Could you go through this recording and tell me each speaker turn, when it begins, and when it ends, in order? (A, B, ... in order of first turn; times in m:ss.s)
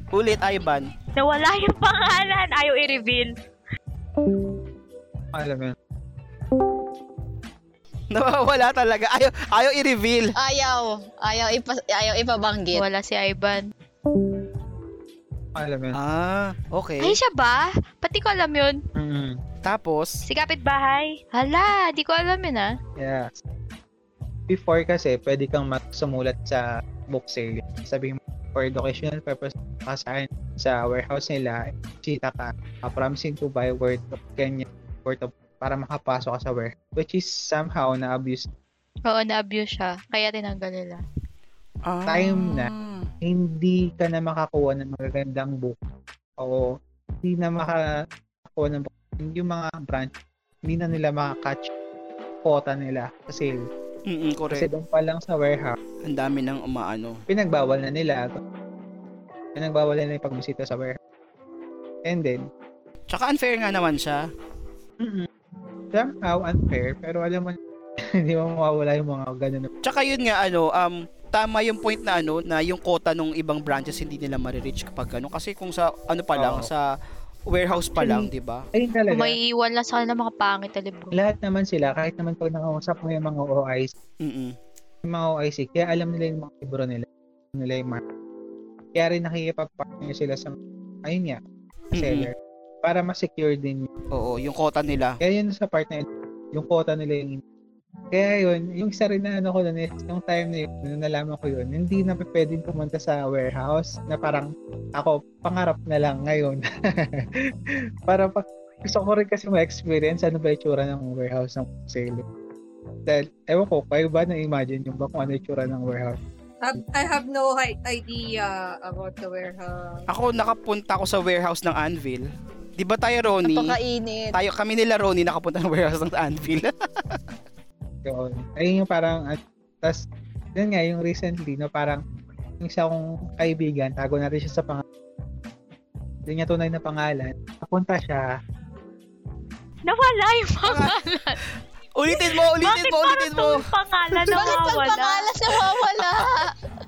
0:00.1-0:00.9 A
0:01.2-0:03.3 B
0:05.4-0:05.8 C
0:08.1-0:10.3 A
0:10.4-0:12.8 D
0:12.7-0:13.6 B
0:15.6-0:16.0 C
0:15.9-0:17.2 A
0:17.0-0:18.8 B
0:19.0-0:19.4 C
0:19.6-0:20.2 A
0:20.3-0:22.7 B
0:23.0-0:23.3 C
0:24.5-0:38.5 C
0:39.1-0:41.0 B
0:41.9-0:43.1 A
0:42.1-0:42.7 C
0:43.2-0:45.8 C
0:46.4-0:46.7 C
0:47.2-0:47.9 C
0:48.5-0:50.1 C
0:50.7-0:51.7 C
0:52.4-0:53.6 C
0:54.1-0:54.7 A
0:54.5-0:55.8 C
0:56.0-0:57.2 A
0:57.3-0:58.4 C
0:59.6-1:01.0 C
1:02.0-1:02.4 C
1:03.1-1:04.3 A
1:05.0-1:05.3 C
1:05.9-1:07.6 C
1:08.1-1:09.7 C
1:09.8-1:16.9 A
1:16.4-1:16.7 C
1:17.5-1:18.6 A
1:18.0-1:19.4 C
1:19.1-1:21.1 B
1:21.1-1:23.9 C
1:24.2-1:24.5 A
1:25.1-1:28.0 C
1:29.0-1:30.6 C
1:31.1-1:31.4 C
1:32.0-1:32.3 A
1:32.0-1:32.3 C
1:32.8-1:33.9 C
1:34.1-1:35.2 A
1:35.2-1:37.4 C
1:38.1-1:47.5 C
1:48.1-1:52.2 C
1:53.1-1:56.2 C
1:56.6-2:00.0 E
2:00.1-2:03.8 A
2:03.4-2:04.3 D
2:04.3-2:06.7 A
2:08.0-2:10.0 C
2:10.6-2:12.0 C
2:12.6-2:14.8 C
2:16.3-2:18.3 C
2:19.9-2:21.4 B
2:20.6-2:21.0 A
2:22.0-2:24.4 A
2:22.1-2:25.3 B
2:24.3-2:26.6 D